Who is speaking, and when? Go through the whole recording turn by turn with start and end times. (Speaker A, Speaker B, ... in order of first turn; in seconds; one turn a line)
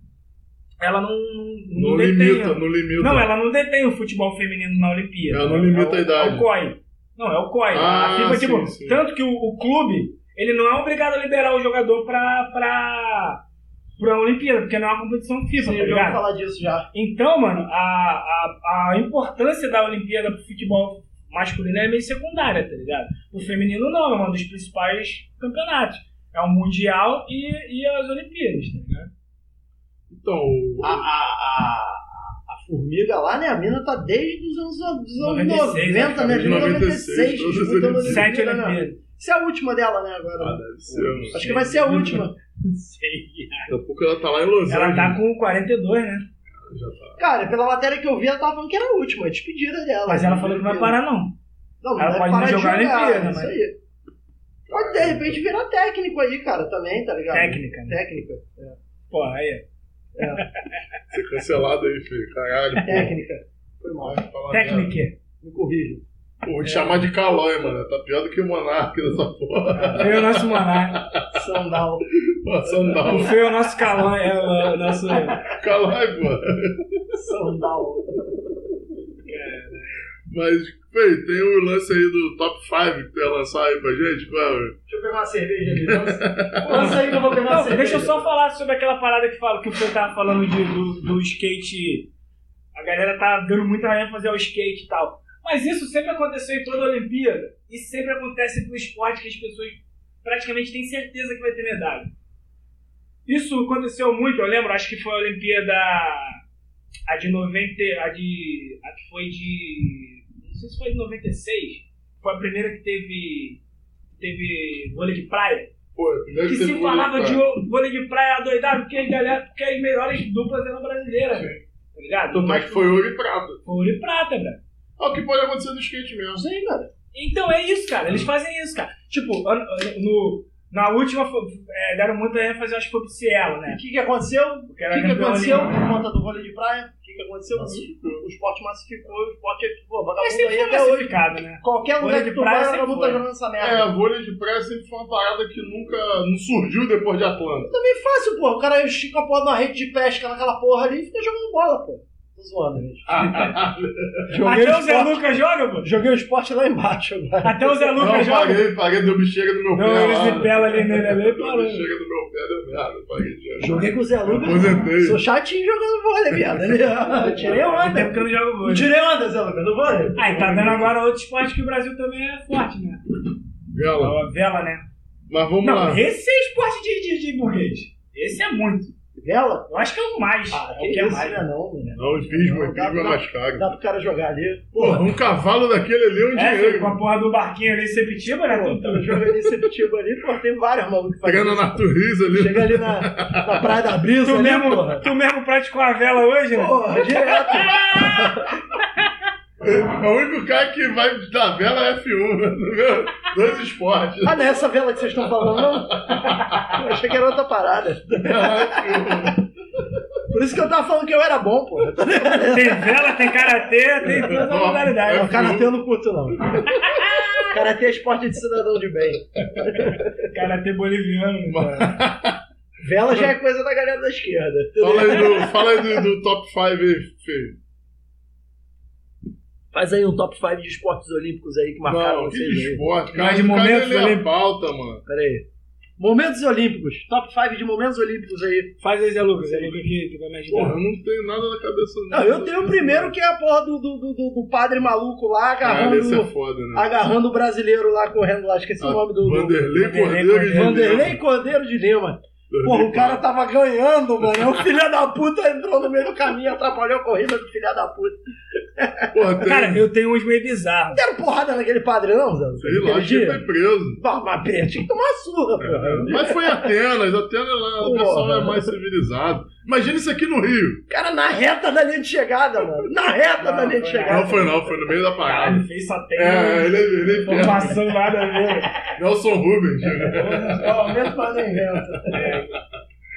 Speaker A: 0.8-13.4
Speaker B: 1.7-3.3
Speaker B: 5.3-6.5
Speaker B: 7.7-9.0
Speaker A: 14.0-16.2
Speaker C: 15.6-16.9
Speaker A: 16.9-29.1
Speaker B: 30.1-31.1
Speaker C: 30.8-42.4
Speaker A: 35.2-36.8
Speaker B: 36.3-38.3
Speaker A: 38.0-39.0
Speaker B: 40.4-41.4
Speaker A: 40.9-43.7
Speaker B: 43.7-45.2
Speaker A: 44.7-46.2
Speaker B: 46.5-47.2
Speaker C: 47.2-51.0
Speaker A: 50.1-51.4
Speaker C: 51.8-53.8
Speaker A: 52.0-53.5
Speaker B: 54.7-55.4
Speaker C: 54.7-58.8
Speaker A: 57.3-58.0
Speaker A: 59.1-59.6
Speaker C: 60.1-60.4
Speaker A: 60.2-60.7
Speaker B: 61.1-63.1
Speaker C: 62.8-64.2
Speaker B: 64.0-64.9
Speaker A: 64.5-65.1
Speaker C: 65.4-66.0
Speaker B: 66.4-71.4
Speaker C: 66.6-67.0
Speaker C: 69.7-70.1
Speaker A: 70.0-71.0
Speaker C: 71.3-72.0
Speaker B: 72.1-73.3
Speaker C: 72.6-73.2
Speaker A: 73.0-75.5
Speaker B: 75.5-76.9
Speaker C: 77.1-78.3
Speaker A: 79.2-80.0
Speaker B: 80.3-84.8
Speaker C: 84.9-88.3
Speaker B: 85.8-87.0
Speaker A: 86.7-92.1
Speaker A: 92.7-102.1
Speaker A: 103.2-106.4
Speaker A: 107.1-113.6
Speaker A: 114.1-115.7
Speaker B: 115.9-117.4
Speaker A: 116.4-122.9
Speaker B: 121.3-121.6
Speaker B: 122.3-123.6
Speaker A: 123.6-124.6
Speaker B: 125.0-126.4
Speaker C: 126.3-126.9
Speaker A: 127.1-133.8
Speaker C: 133.7-143.9
Speaker A: 134.7-136.0
Speaker B: 137.5-138.2
Speaker A: 140.2-143.2
Speaker B: 143.6-147.7
Speaker C: 147.6-153.6
Speaker B: 153.1-154.3
Speaker C: 154.3-155.2
Speaker A: 154.4-155.9
Speaker C: 155.8-158.0
Speaker A: 157.4-158.6
Speaker B: 158.0-163.8
Speaker A: 159.7-161.8
Speaker C: 163.6-170.2
Speaker B: 164.3-165.2
Speaker B: 166.3-166.7
Speaker A: 167.1-168.9
Speaker A: 170.2-173.0
Speaker B: 170.2-170.9
Speaker B: 173.7-174.2
Speaker A: 173.9-174.8
Speaker B: 175.3-176.0
Speaker A: 175.6-178.9
Speaker C: 179.2-179.8
Speaker A: 179.7-181.4
Speaker C: 180.5-185.0
Speaker B: 181.9-183.7
Speaker B: 184.7-187.0
Speaker A: 186.3-189.2
Speaker C: 188.2-195.1
Speaker B: 191.2-193.6
Speaker A: 194.2-199.1
Speaker C: 196.5-198.5
Speaker B: 199.6-204.6
Speaker C: 204.2-206.2
Speaker B: 205.4-206.8
Speaker C: 206.7-209.4
Speaker B: 208.1-209.4
Speaker C: 210.3-213.3
Speaker A: 212.4-215.4
Speaker B: 214.2-215.7
Speaker C: 215.1-216.6
Speaker A: 216.6-217.6
Speaker C: 217.4-220.2
Speaker A: 219.5-222.0
Speaker B: 221.5-222.4
Speaker C: 222.8-225.7
Speaker B: 224.8-227.6
Speaker C: 229.7-232.8
Speaker B: 231.8-235.0
Speaker A: 233.1-234.3
Speaker C: 235.1-235.4
Speaker C: 236.0-238.7
Speaker A: 238.8-240.8
Speaker C: 239.4-239.7
Speaker B: 240.5-243.1
Speaker C: 242.1-249.7
Speaker B: 245.6-246.9
Speaker B: 248.8-251.2
Speaker A: 249.7-251.0
Speaker C: 250.5-258.2
Speaker B: 252.5-253.2
Speaker B: 254.2-254.5
Speaker C: 258.7-259.1
Speaker B: 259.1-259.8
Speaker A: 259.4-261.0
Speaker C: 260.9-263.4
Speaker B: 262.6-264.0
Speaker C: 264.0-266.7
Speaker B: 265.6-270.8
Speaker A: 265.8-266.1
Speaker C: 267.8-268.7
Speaker C: 270.9-274.5
Speaker A: 273.4-274.5
Speaker B: 274.0-275.6
Speaker A: 275.1-278.9
Speaker B: 276.1-277.8
Speaker B: 278.9-280.9
Speaker A: 280.1-280.7
Speaker C: 280.5-282.2
Speaker A: 282.1-282.6